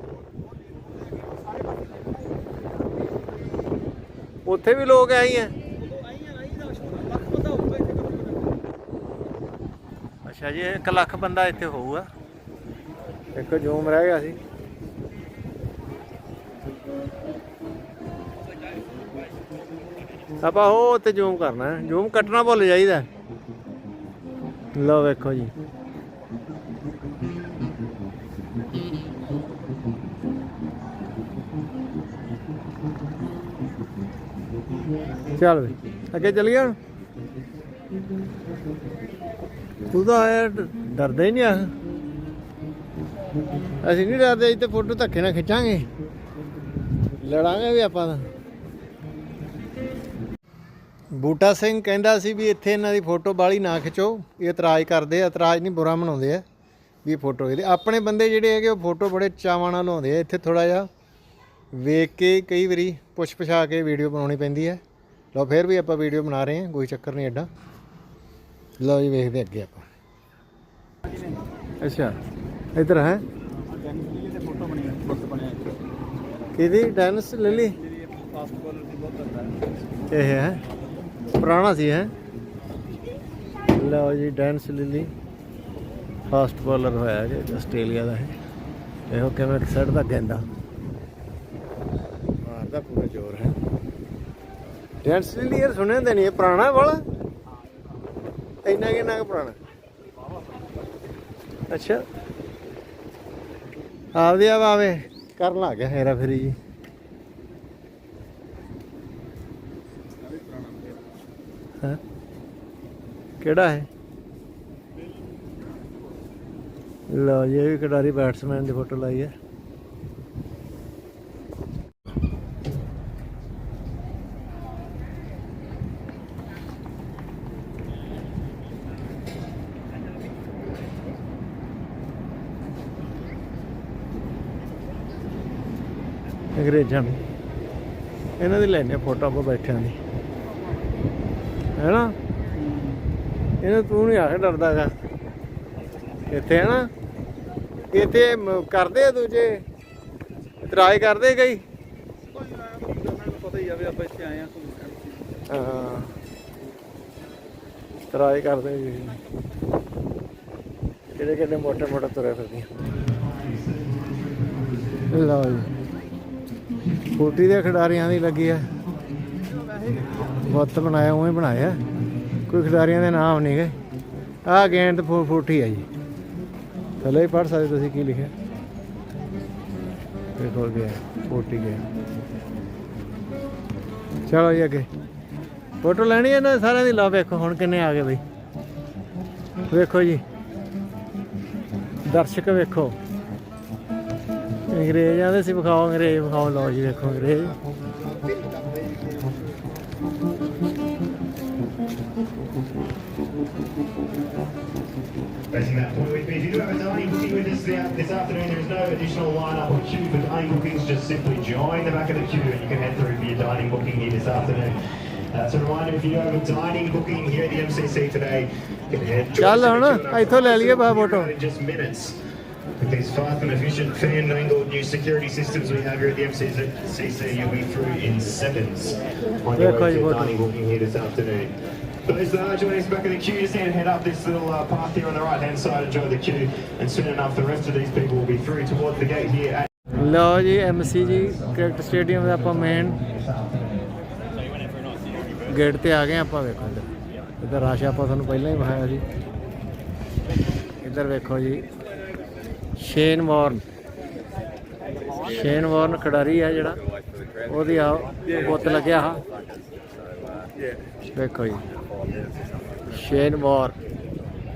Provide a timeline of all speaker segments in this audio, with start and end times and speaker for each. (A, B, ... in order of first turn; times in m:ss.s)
0:00.3-0:02.4 A
0:04.4-0:05.5 B
0:05.8-0:08.7 A
0:10.2-0:12.1 B
0:13.3-0:14.4 B
0:20.4-0:23.1 B
0:24.8-0:25.5 B
0:35.4-0:36.8 B
0:39.9-0:41.7 B
0:43.8-0:45.9 B
0:47.2-0:48.2 B
0:51.2-0:56.4 B
0:57.0-1:00.9 B
1:01.7-1:04.8 B
1:05.3-1:07.5 B
1:08.8-1:09.9 B
1:11.0-1:11.4 A
1:11.8-1:12.2 B
1:12.8-1:13.2 B
1:13.6-1:15.8 A
1:16.6-1:17.8 B
1:17.4-1:19.6 A
1:20.1-1:20.6 B
1:21.3-1:22.1 B
1:23.7-1:25.1 B
1:26.3-1:28.4 B
1:29.1-1:30.4 B
1:32.4-1:33.6 B
1:35.0-1:37.0 B
1:38.6-1:39.6 B
1:41.7-1:42.0 B
1:44.2-1:46.6 B
1:50.2-1:51.0 A
1:53.4-1:53.9 B
1:57.1-1:59.3 B
2:16.6-2:17.2 B
2:18.4-2:20.0 B
2:21.8-2:22.2 B
2:22.5-2:23.0 A
2:23.6-2:24.9 B
2:26.3-2:26.9 B
2:27.9-2:29.6 B
2:30.6-2:31.6 B
2:32.3-2:35.4 A
2:35.5-2:36.1 B
2:38.1-2:39.2 B
2:41.1-2:42.7 B
2:43.1-2:44.5 C
2:45.1-2:45.7 B
2:47.1-2:48.7 B
2:49.3-2:50.5 A
2:50.5-2:51.8 B
2:52.5-2:53.8 B
2:54.5-2:55.9 B
2:57.0-2:58.3 B
3:00.4-3:01.8 B
3:04.3-3:04.9 B
3:05.8-3:08.2 B
3:09.7-3:10.2 B
3:12.0-3:13.0 B
3:14.7-3:17.6 B
3:18.2-3:19.3 C
3:25.5-3:34.8 C
3:35.3-3:42.2 C
3:39.4-3:41.3 B
3:42.8-3:59.7 C
3:49.6-3:50.4 B
4:00.0-4:03.0 B
4:05.5-4:06.9 B
4:07.4-4:09.0 B
4:10.8-4:11.6 B
4:12.8-4:13.6 B
4:15.2-4:16.8 B
4:17.5-4:19.2 B
4:21.0-4:21.6 B
4:22.9-4:23.8 B